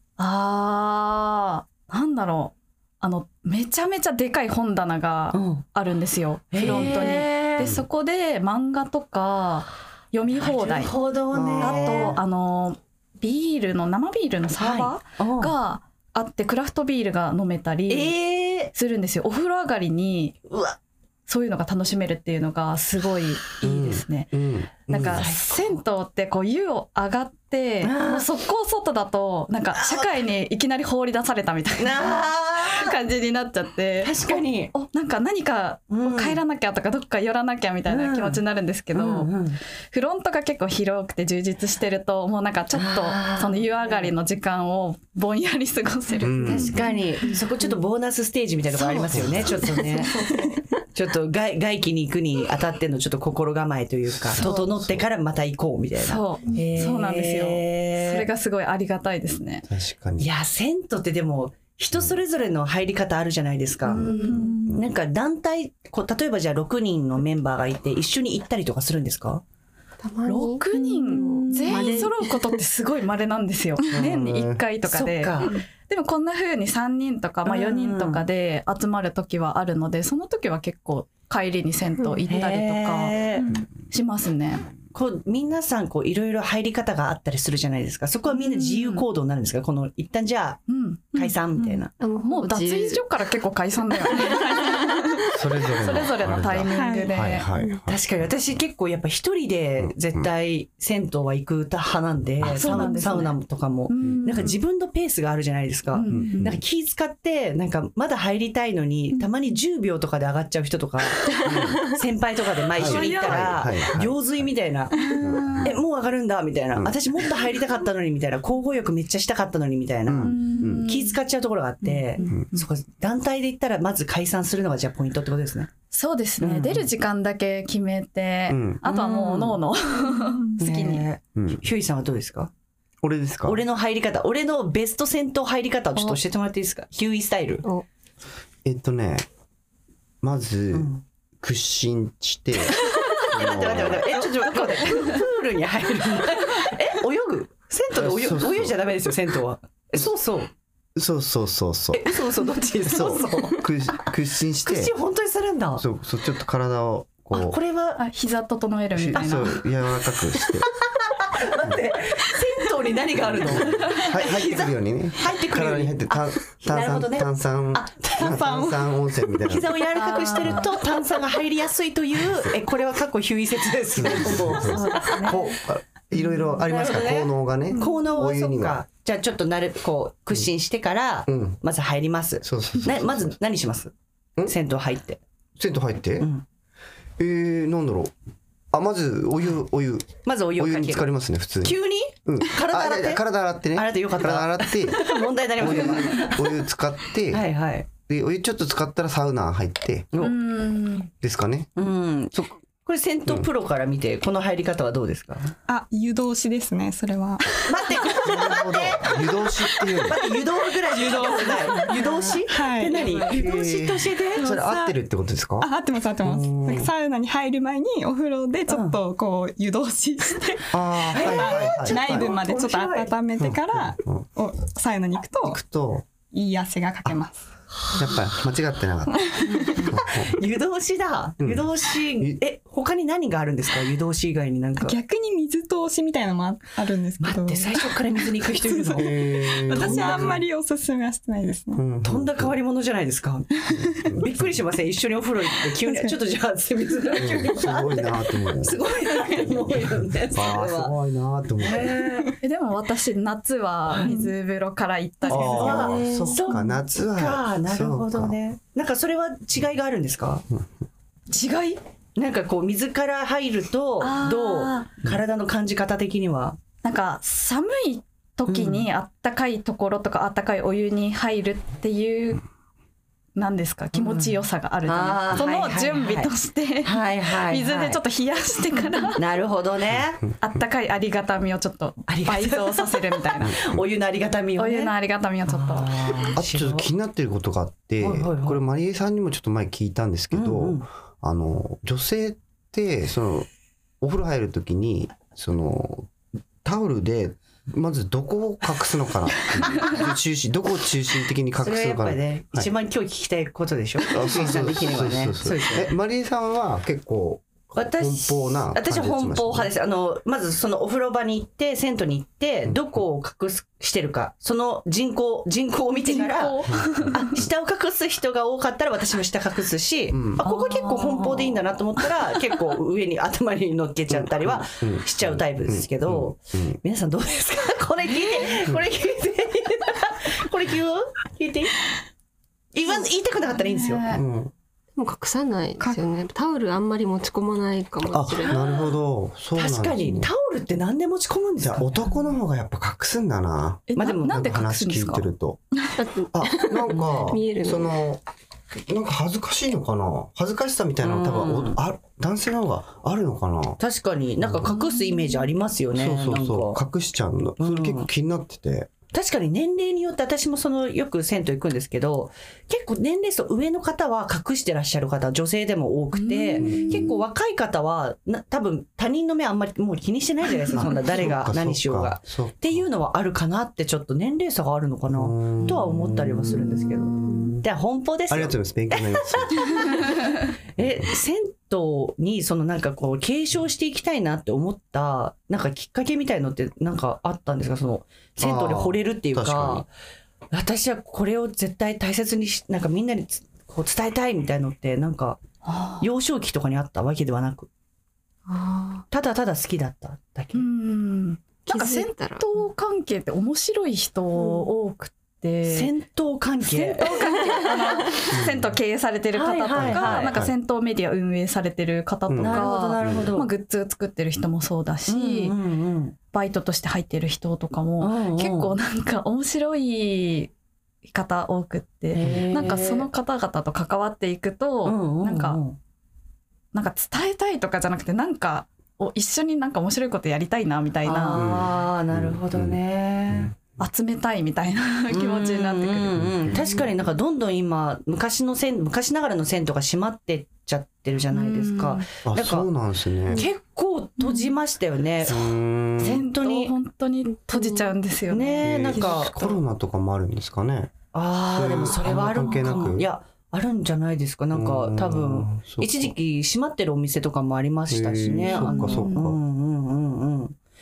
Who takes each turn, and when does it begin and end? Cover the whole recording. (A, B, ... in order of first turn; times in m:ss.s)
0:00.2-0:10.9 A
0:05.3-0:05.6 B
0:06.5-0:07.7 B
0:06.6-0:07.8 C
0:10.3-0:12.2 B
0:11.3-0:12.2 C
0:11.6-0:18.2 A
0:14.6-0:15.5 B
0:17.9-0:18.7 B
0:18.7-0:20.4 A
0:20.5-0:20.8 B
0:21.3-0:24.3 A
0:23.6-0:25.3 C
0:24.9-0:39.3 A
0:25.0-0:25.8 B
0:27.8-0:28.2 B
0:29.7-0:30.2 B
0:31.8-0:33.0 B
0:34.0-0:34.7 B
0:35.9-0:36.4 B
0:37.9-0:38.4 B
0:38.9-0:39.6 B
0:39.9-0:47.4 A
0:42.7-0:44.1 B
0:46.2-0:46.9 C
0:46.4-0:50.1 B
0:49.1-0:49.8 C
0:50.9-0:58.3 B
0:54.2-0:55.0 C
0:56.0-0:59.6 A
0:59.7-1:00.3 C
1:00.2-1:09.4 B
1:03.8-1:04.5 A
1:10.0-1:12.4 D
1:10.3-1:24.6 A
1:11.2-1:12.1 E
1:13.9-1:14.6 C
1:14.8-1:15.5 B
1:17.4-1:18.2 B
1:22.3-1:23.5 B
1:24.9-1:31.9 B
1:28.3-1:29.0 A
1:30.7-1:35.0 A
1:32.0-1:33.0 D
1:34.2-1:34.8 D
1:35.3-1:38.1 C
1:35.8-1:37.5 A
1:36.7-1:37.2 E
1:37.9-2:05.7 B
1:39.8-1:40.3 C
1:42.4-1:42.9 C
1:42.5-1:44.6 A
1:44.0-1:44.5 C
1:45.9-1:46.6 A
1:46.1-1:46.6 C
1:51.4-1:51.9 C
1:52.7-1:54.5 C
1:52.8-1:53.7 A
1:55.1-1:55.7 A
1:55.2-1:55.8 C
2:00.1-2:00.9 C
2:00.2-2:01.2 A
2:02.3-2:02.5 C
2:05.9-2:11.0 A
2:06.4-2:06.9 B
2:08.5-2:08.8 C
2:08.8-2:09.6 B
2:10.6-2:12.5 B
2:11.4-2:11.6 C
2:13.0-2:13.6 C
2:13.4-2:17.6 B
2:18.6-2:19.2 C
2:20.2-2:24.2 C
2:20.7-2:21.0 B
2:22.8-2:30.5 B
2:24.7-2:25.2 A
2:28.0-2:28.8 C
2:31.0-2:32.2 C
2:31.9-2:33.7 B
2:32.9-2:34.9 C
2:34.6-2:35.8 B
2:35.8-2:37.6 C
2:37.3-2:38.0 B
2:38.0-2:39.6 A
2:39.0-2:40.7 C
2:39.1-2:39.5 B
2:40.9-2:48.9 B
2:43.3-2:50.7 C
2:49.4-2:55.5 B
2:50.0-2:50.7 A
2:52.2-2:52.6 C
2:53.9-2:58.8 C
2:54.7-2:55.3 A
2:56.2-3:03.9 B
3:01.2-3:01.6 C
3:02.4-3:03.4 C
3:04.5-3:05.2 B
3:05.6-3:06.3 C
3:07.2-3:08.1 C
3:08.7-3:17.5 C
3:10.2-3:11.1 B
3:11.6-3:16.6 B
3:17.3-3:17.9 B
3:18.1-3:20.1 C
3:20.2-3:21.1 A
3:21.2-3:22.5 C
3:21.8-3:25.5 B
3:25.7-3:27.8 E
3:27.6-3:34.5 B
3:28.2-3:30.2 C
3:30.9-3:33.2 E
3:33.3-3:35.7 C
3:34.4-3:34.9 E
3:35.6-3:45.6 E
3:36.2-3:36.9 C
3:38.7-3:39.0 B
3:40.7-3:42.3 C
3:41.1-3:43.1 B
3:43.4-3:44.2 C
3:45.4-3:46.0 C
3:46.3-3:47.5 E
3:47.9-3:50.4 C
3:49.1-3:49.9 E
3:49.7-3:55.0 B
3:51.4-3:52.4 C
3:54.8-4:01.8 E
3:57.2-4:00.4 B
3:58.9-4:00.4 C
4:01.8-4:02.6 C
4:02.0-4:03.5 B
4:03.8-4:04.5 C
4:04.0-4:10.9 B
4:05.8-4:06.2 E
4:07.2-4:08.8 C
4:09.5-4:12.1 C
4:11.6-4:12.3 B
4:12.4-4:15.9 A
4:13.9-4:14.1 B
4:14.0-4:14.3 E
4:15.3-4:18.4 C
4:15.3-4:20.4 B
4:15.6-4:16.4 D
4:21.3-4:21.8 A
4:22.2-4:26.6 B
4:24.0-4:24.9 A
4:26.8-4:32.4 A
4:28.5-4:28.9 B
4:33.4-4:39.2 A
4:33.9-4:36.3 B
4:36.8-4:38.0 B
4:39.1-4:40.2 B
4:39.9-4:40.6 C
4:40.4-4:43.6 A
4:42.1-4:44.9 B
4:43.4-4:43.8 C
4:44.6-4:46.0 A
4:45.5-4:46.9 B
4:46.4-4:53.5 C
4:48.0-4:48.6 B
4:50.3-4:50.9 B
4:54.0-4:56.1 C
4:56.6-5:02.7 C
5:01.6-5:05.9 B
5:04.1-5:09.7 C
5:07.7-5:31.8 B
5:16.0-5:17.3 A
5:16.7-5:17.2 C
5:20.1-5:20.4 C
5:20.4-5:21.6 A
5:24.1-5:26.8 C
5:32.7-5:34.2 B
5:33.6-5:34.2 A
5:34.1-5:34.5 C
5:35.0-5:38.6 D
5:38.1-5:40.3 C
5:38.4-5:38.9 B
5:39.5-5:42.0 B
5:41.6-5:45.6 C
5:43.9-5:45.3 A
5:44.0-5:44.4 B
5:46.0-5:48.0 D
5:46.3-5:48.2 C
5:48.8-5:53.8 C
5:51.0-5:51.8 B
5:53.8-5:56.8 B
5:54.4-5:54.8 C
5:54.7-5:55.4 A
5:55.9-5:58.9 C
5:57.6-5:58.1 B
5:59.1-6:20.2 B
6:06.1-6:07.1 A
6:06.6-6:07.2 C
6:10.7-6:12.9 C
6:15.1-6:17.6 C
6:18.3-6:20.2 C
6:20.8-6:29.9 B
6:20.8-6:21.1 C
6:28.4-6:29.8 C
6:30.5-6:35.4 B
6:35.6-6:36.1 A
6:36.0-6:37.7 B
6:38.4-6:39.0 D
6:39.1-6:40.7 B
6:40.5-6:45.9 A
6:41.7-6:42.4 D
6:45.6-6:47.4 B
6:46.6-6:55.5 A
6:48.3-6:48.7 C
6:49.3-6:50.4 B
6:49.7-6:50.5 C
6:52.3-6:53.4 C
6:52.4-6:53.5 B
6:55.1-6:56.1 B
6:56.3-7:00.5 A
6:58.0-6:58.7 B
7:01.1-7:05.6 A
7:02.1-7:03.1 B
7:02.2-7:02.8 C
7:04.8-7:05.8 B
7:06.7-7:11.4 A
7:11.0-7:13.5 B
7:11.3-7:13.6 C
7:13.8-7:16.4 A
7:15.1-7:22.7 B
7:16.1-7:16.6 C
7:21.3-7:22.0 A
7:22.2-7:23.5 C
7:23.3-7:26.7 B
7:24.2-7:24.5 A
7:25.2-7:26.2 C
7:26.0-7:28.7 A
7:27.5-7:27.9 D
7:28.3-7:29.6 B
7:28.6-7:30.9 C
7:31.1-7:40.6 B
7:31.5-7:33.1 C
7:34.5-7:36.1 C
7:37.9-7:39.4 C
7:38.3-7:39.2 A